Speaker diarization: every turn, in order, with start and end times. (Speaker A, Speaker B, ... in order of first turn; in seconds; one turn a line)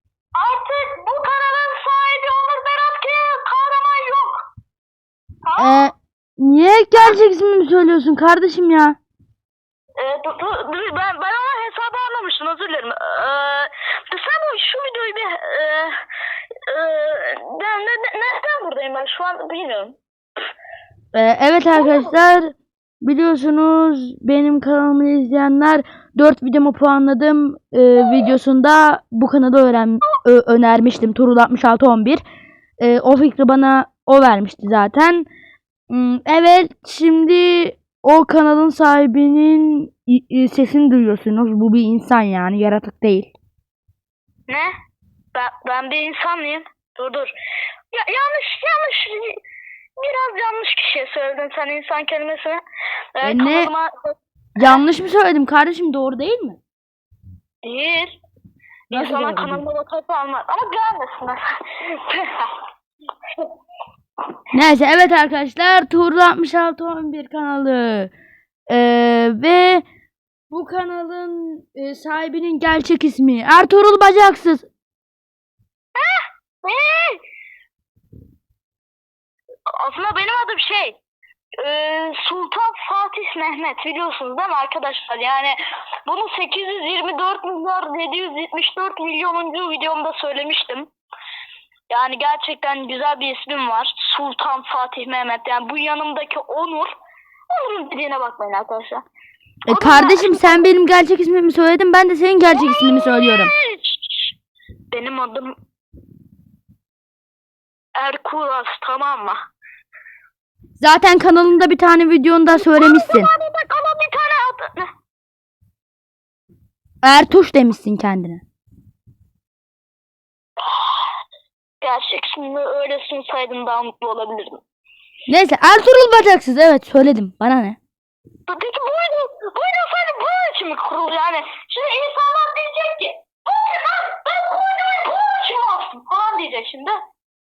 Speaker A: 0.3-4.4
Speaker A: 5.4-5.9
Speaker B: 5.6-9.0
Speaker A: 10.0-15.9
Speaker A: 16.7-20.0
Speaker B: 21.1-32.2
Speaker A: 21.7-22.1
Speaker B: 32.8-35.3
Speaker B: 35.9-43.3
Speaker A: 45.3-47.3
Speaker A: 47.9-49.4
Speaker A: 50.0-52.6
Speaker A: 53.1-54.1
Speaker B: 53.2-53.7
Speaker B: 54.6-56.6
Speaker A: 57.6-58.2
Speaker A: 58.9-62.3
Speaker B: 58.9-59.6
Speaker B: 64.5-68.1
Speaker B: 68.7-69.8
Speaker B: 70.5-74.7
Speaker A: 75.9-77.2
Speaker A: 79.8-81.0
Speaker A: 81.6-90.9
Speaker A: 91.9-96.9
Speaker A: 97.5-99.0
Speaker B: 99.7-103.5
Speaker A: 99.7-100.7
Speaker A: 102.5-104.3
Speaker A: 104.9-105.5
Speaker A: 108.0-109.4
Speaker B: 110.8-113.3
Speaker A: 112.5-114.9
Speaker B: 117.0-118.4
Speaker A: 120.6-121.0
Speaker A: 121.8-124.6
Speaker B: 125.3-127.8
Speaker A: 128.5-136.9